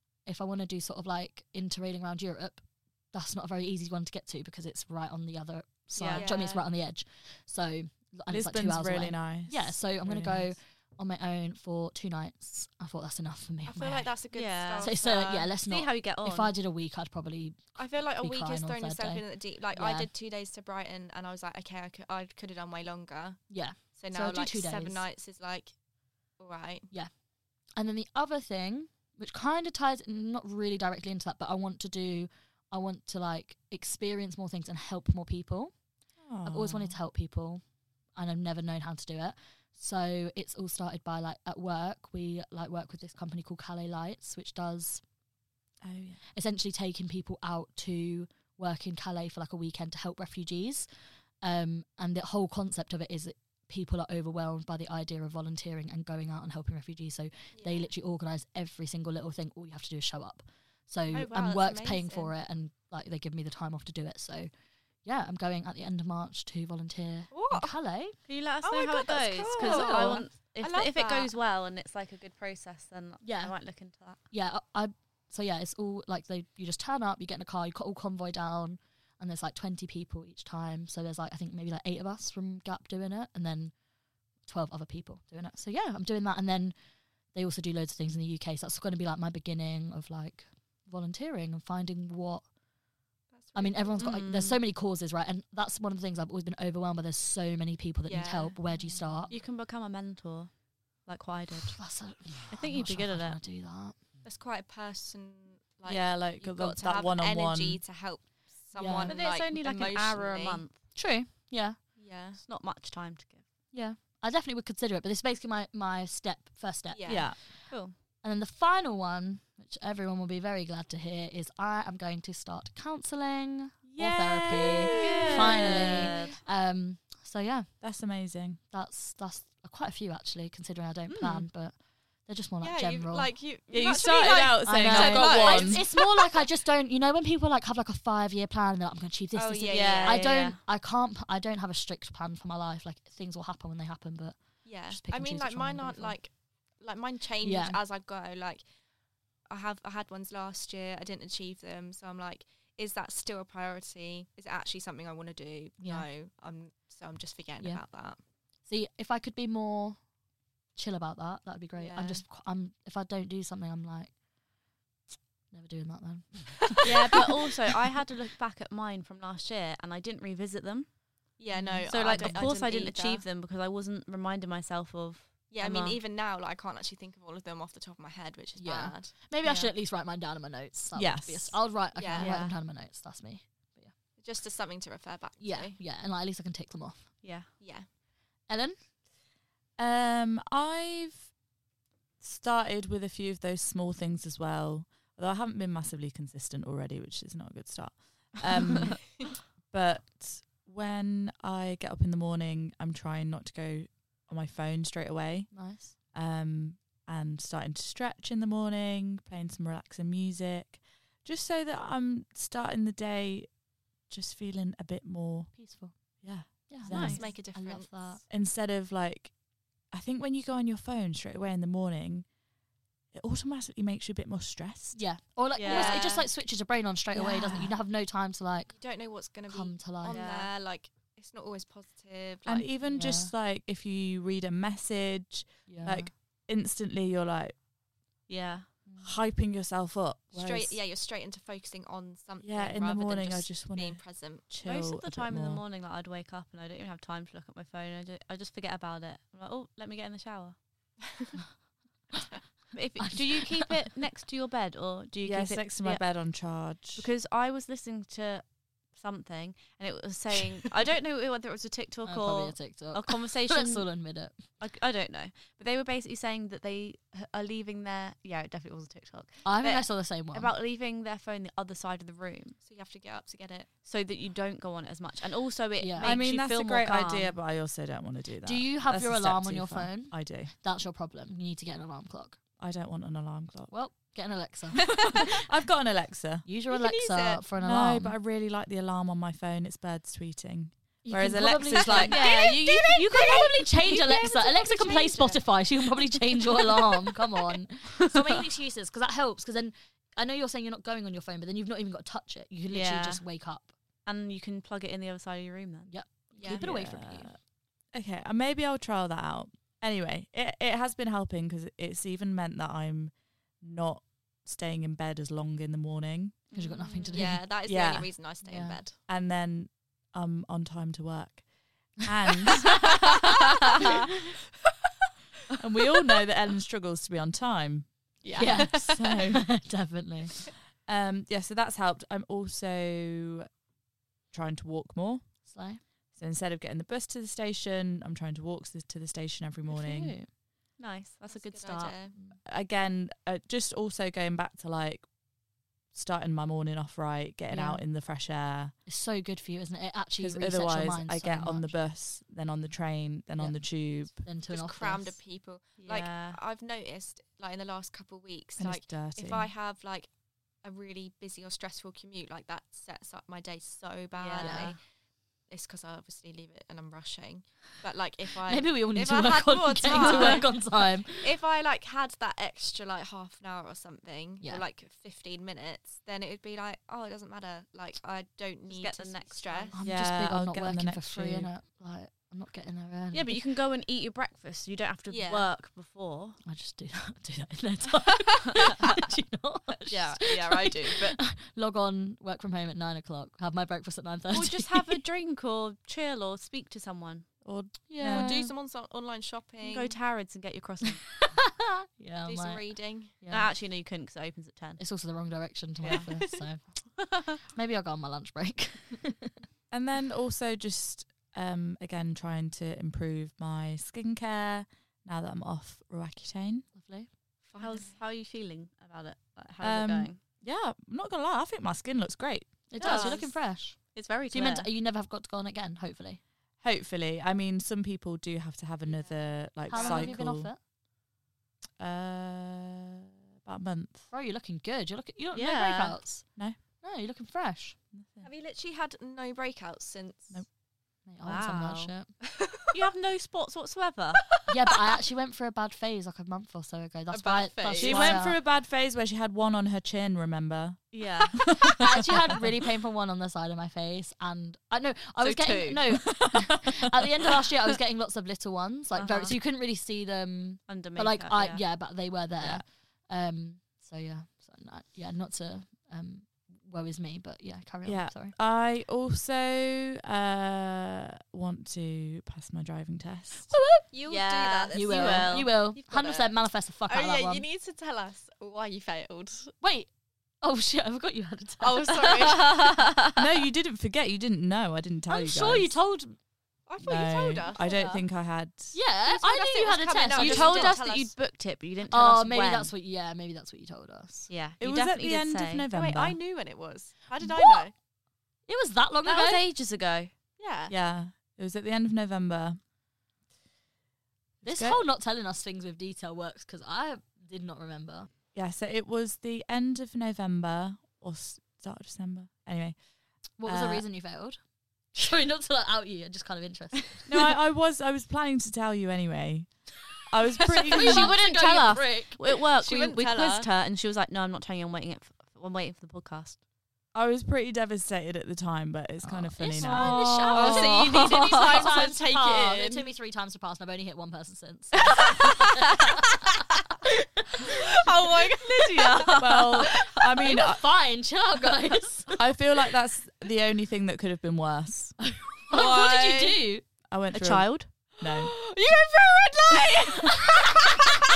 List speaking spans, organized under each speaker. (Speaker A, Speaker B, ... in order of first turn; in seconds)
Speaker A: 0.2-14.1, 14.8-20.1, 23.5-25.0, 27.7-35.7, 36.4-45.0, 46.3-50.9, 51.4-64.5, 65.0-68.2, 69.5-70.2, 73.2-73.5, 74.3-83.7, 84.4-86.7, 87.3-92.4, 93.5-99.3, 101.7-104.0, 108.7-109.2, 110.9-111.8, 113.7-117.6, 118.2-127.7, 128.7-133.3, 134.7-146.2, 147.4-147.8, 155.8-156.1, 158.7-160.0, 160.8-164.1, 165.5-166.8, 171.5-172.5, 178.6-183.9, 185.4-187.2, 188.5-188.8, 205.5-205.9, 215.6-218.2, 224.9-228.7, 229.5-230.2, 232.9-233.3, 235.7-236.1, 238.8-239.2, 253.0-253.7, 262.0-264.4, 269.4-270.5, 275.8-276.2, 278.4-282.4, 283.7-285.2, 286.4-288.1, 291.0-303.7, 305.9-307.3, 316.5-317.4, 318.4-318.8, 328.4-330.4, 335.5-335.8, 339.7-340.3, 347.5-347.8, 348.9-351.7, 353.4-355.2, 364.4-364.7, 368.5-371.3, 379.7-383.3, 386.4-395.0, 397.9-398.5, 401.1-403.5, 404.8-406.6, 407.5-409.3, 416.8-417.1, 422.7-426.2, 429.7-430.6, 434.1-436.3, 436.8-437.8, 441.1-442.1, 444.5-448.4, 451.6-468.3, 473.5-473.9, 474.7-477.4, 479.6-479.9, 480.4-482.0, 485.1-486.1, 488.7-490.8, 491.9-494.3, 497.2-497.6, 498.5-499.4, 504.4-508.1, 513.4-514.4, 514.9-517.1, 520.5-522.2, 529.0-537.7, 540.2-542.2, 545.5-546.6, 550.3-550.7
Speaker B: 6.0-6.3, 14.3-15.0, 15.6-16.5, 68.3-74.2, 94.0-94.6, 99.3-101.9, 102.5-103.4, 109.0-110.8, 112.4-113.5, 117.4-117.9, 124.9-126.4, 131.1-131.4, 139.7-140.6, 166.8-170.9, 171.9-176.0, 179.4-179.7, 182.1-182.5, 187.2-187.5, 216.9-217.2, 225.5-226.2, 230.0-230.5, 238.3-238.7, 244.6-250.6, 252.7-256.2, 256.9-263.9, 264.6-272.6, 273.8-277.3, 292.1-292.8, 302.7-303.2, 304.1-305.9, 316.5-317.3, 340.8-342.0, 355.8-356.4, 364.2-364.7, 369.9-370.4, 378.7-379.8, 383.1-386.4, 389.9-391.2, 394.3-397.3, 399.6-401.1, 403.3-404.8, 417.6-420.2, 422.8-424.7, 435.3-436.0, 441.2-441.9, 442.7-444.3, 450.9-451.6, 455.2-455.8, 458.9-459.3, 460.7-461.6, 474.1-475.5, 482.1-483.2, 490.1-492.7, 494.3-495.6, 499.0-500.1, 520.7-526.4, 529.6-531.4, 538.4-539.7, 547.1-547.7
Speaker C: 6.1-6.6, 13.7-15.5, 17.7-25.7, 26.4-26.9, 57.5-57.9, 61.1-62.3, 67.3-67.8, 68.6-71.3, 93.3-94.1, 98.0-98.6, 104.2-110.6, 112.0-112.4, 116.9-117.3, 124.9-125.2, 132.6-136.2, 139.3-140.3, 144.6-148.6, 149.5-158.2, 161.8-162.2, 171.4-173.2, 175.5-179.1, 181.9-182.3, 184.2-185.8, 187.6-187.9, 216.9-218.2, 225.6-226.3, 228.7-232.9, 240.3-244.5, 272.6-273.7, 286.7-287.4, 291.8-295.4, 306.4-306.6, 317.1-319.0, 328.2-329.2, 341.3-342.1, 354.5-364.8, 365.5-379.8, 385.1-385.5, 398.0-399.9, 402.2-403.1, 417.5-418.0, 422.8-423.3, 428.9-429.1, 429.7-430.2, 438.2-440.4, 442.4-442.6, 447.1-448.2, 473.9-476.3, 476.9-479.5, 481.6-482.5, 486.7-488.0, 489.1-491.1, 495.7-497.7, 500.4-500.7, 522.6-523.5, 530.3-532.9, 537.4-539.7, 545.5-546.3, 548.0-551.0
Speaker D: 8.3-10.5, 36.2-37.0, 45.8-46.2, 105.9-107.8, 117.0-117.4, 123.9-126.1, 127.8-128.6, 133.7-135.8, 180.9-181.6, 189.8-191.3, 192.2-213.5, 214.1-217.2, 218.3-219.3, 219.9-222.3, 223.1-225.0, 232.4-237.5, 239.0-240.8, 242.4-245.6, 255.2-257.1, 276.0-280.5, 282.6-283.7, 285.1-286.4, 287.6-292.1, 306.5-307.4, 307.9-316.4, 317.6-318.1, 319.1-321.4, 322.0-323.0, 325.6-329.5, 330.9-333.5, 334.3-335.3, 336.1-340.1, 342.4-345.1, 345.9-348.7, 350.2-354.2, 358.6-359.5, 379.8-381.5, 397.4-398.4, 409.7-416.6, 419.6-422.7, 426.6-430.5, 431.8-434.0, 437.9-438.2, 447.8-452.4, 456.1-456.5, 467.8-473.5, 483.1-485.7, 486.8-488.8, 494.6-496.2, 500.7-502.6, 504.4-504.8, 508.3-512.8, 513.4-513.8, 517.1-521.1, 526.9-530.4, 539.1-540.6, 542.1-545.0, 546.9-548.3